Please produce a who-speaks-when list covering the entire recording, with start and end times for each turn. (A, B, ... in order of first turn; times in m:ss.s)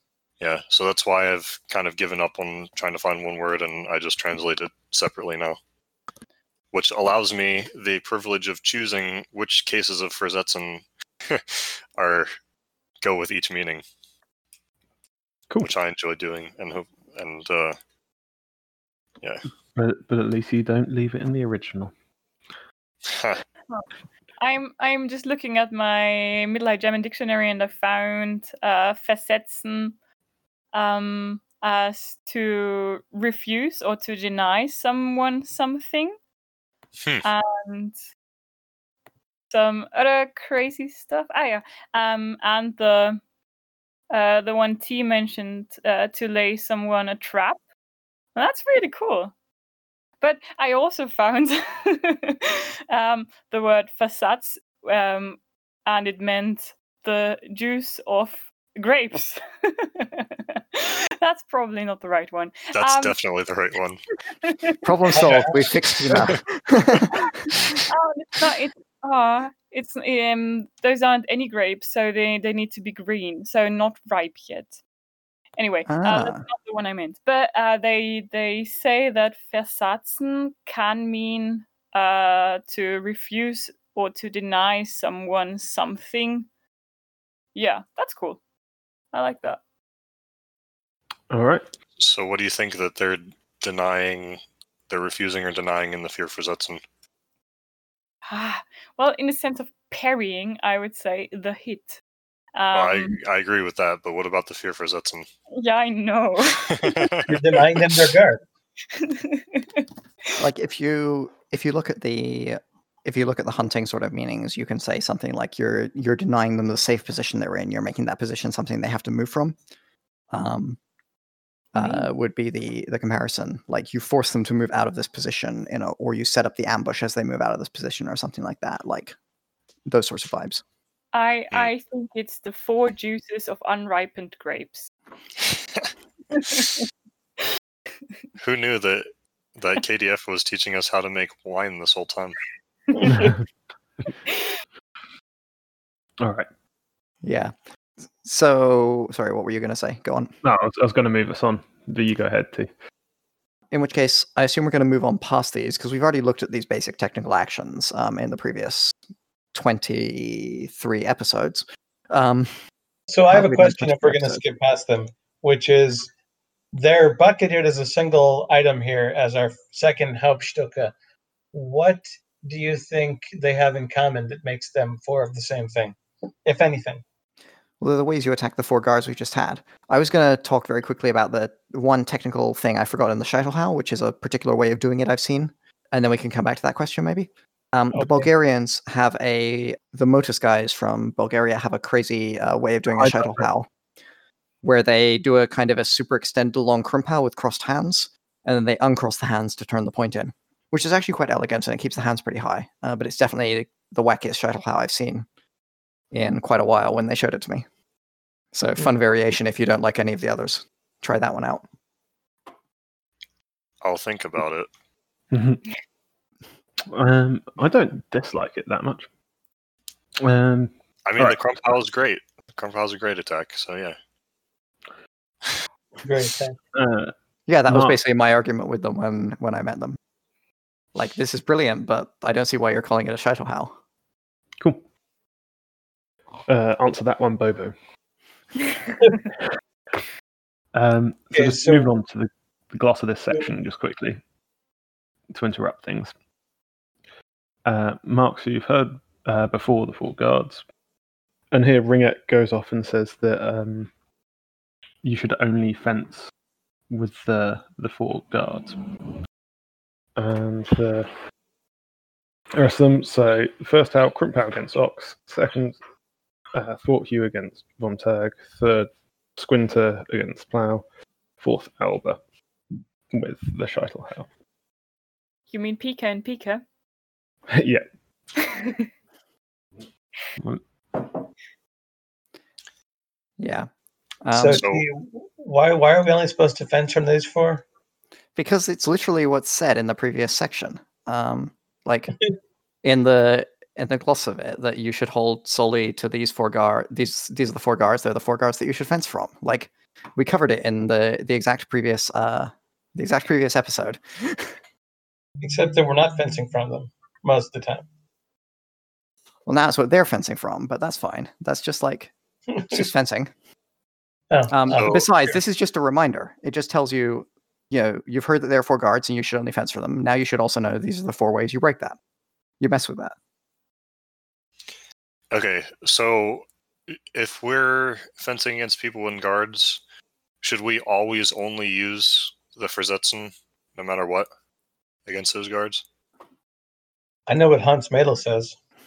0:00.4-0:05.6 A
0:06.7-0:12.3 A
0:13.0-0:13.8 A
0:15.6-0:17.8 A
0:19.2-0:19.5 A
0:19.7-0:21.9 B
0:23.1-0:23.4 A
0:24.4-0:29.9 C
0:30.7-0:36.2 C
0:37.0-0:37.2 A
0:37.2-0:38.0 C
0:39.5-0:43.2 C
0:44.1-0:47.6 C
0:48.4-0:49.3 C
0:50.2-1:03.2 C
1:02.7-1:04.0 A
1:04.4-1:04.8 C
1:04.8-1:07.3 D
1:05.1-1:05.6 E
1:07.1-1:14.8 C
1:15.6-1:26.5 C
1:15.8-1:16.4 D
1:27.5-1:28.4 C
1:29.1-1:29.6 C
1:31.3-1:31.6 B
1:32.0-1:36.8 A
1:38.3-1:42.0 C
1:42.5-1:43.2 C
1:42.7-1:45.3 A
1:45.5-1:47.1 C
1:46.7-1:47.4 A
1:47.3-1:48.4 E
1:48.9-1:49.8 C
1:50.4-1:59.6 D
2:00.3-2:00.8 D
2:01.7-2:09.1 D
2:01.8-2:02.1 C
2:09.8-2:10.6 D
2:11.1-2:14.9 C
2:16.3-2:16.8 C
2:18.4-2:22.4 A
2:23.0-2:23.4 B
2:26.2-2:26.5 B
2:27.2-2:27.5 D
2:28.2-2:30.3 D
2:30.4-2:32.7 B
2:33.7-2:39.0 D
2:39.5-2:42.6 D
2:43.1-2:46.1 E
2:43.3-2:44.4 D
2:46.7-2:50.9 E
2:51.5-2:57.0 E
2:57.8-3:13.7 D
3:07.9-3:08.3 E
3:13.0-3:13.5 B
3:14.6-3:25.2 D
3:26.1-3:27.6 D
3:28.5-3:31.6 D
3:33.8-3:34.7 A
3:35.3-3:35.6 B
3:36.9-3:39.1 B
3:40.2-3:41.4 B
3:41.0-3:44.0 A
3:46.0-3:46.6 E
3:46.7-3:47.1 B
3:47.5-3:50.0 D
3:47.7-3:48.0 B
3:50.9-3:53.7 D
3:56.5-3:57.7 B
4:00.7-4:04.2 B
4:01.3-4:01.9 E
4:05.3-4:06.1 B
4:07.6-4:10.6 B
4:11.5-4:13.9 B
4:15.0-4:16.3 B
4:16.9-4:18.8 B
4:20.1-4:21.1 B
4:22.5-4:25.8 B
4:26.5-4:30.8 B
4:31.4-4:32.2 B
4:33.1-4:34.3 B
4:35.5-4:36.6 C
4:37.5-4:37.8 B
4:38.4-4:38.8 C
4:40.4-4:41.1 B
4:43.4-4:43.7 D
4:44.2-4:44.7 D
4:44.3-4:47.6 E
4:48.4-4:52.2 D
4:52.8-5:04.6 D
5:05.4-5:07.8 E
5:09.4-5:12.1 D
5:12.7-5:13.3 D
5:14.3-5:15.3 E
5:14.5-5:22.0 D
5:14.7-5:15.0 A
5:22.6-5:23.1 D
5:25.3-5:29.8 A
5:30.4-5:34.3 A
5:35.0-5:35.8 A
5:37.3-5:38.5 E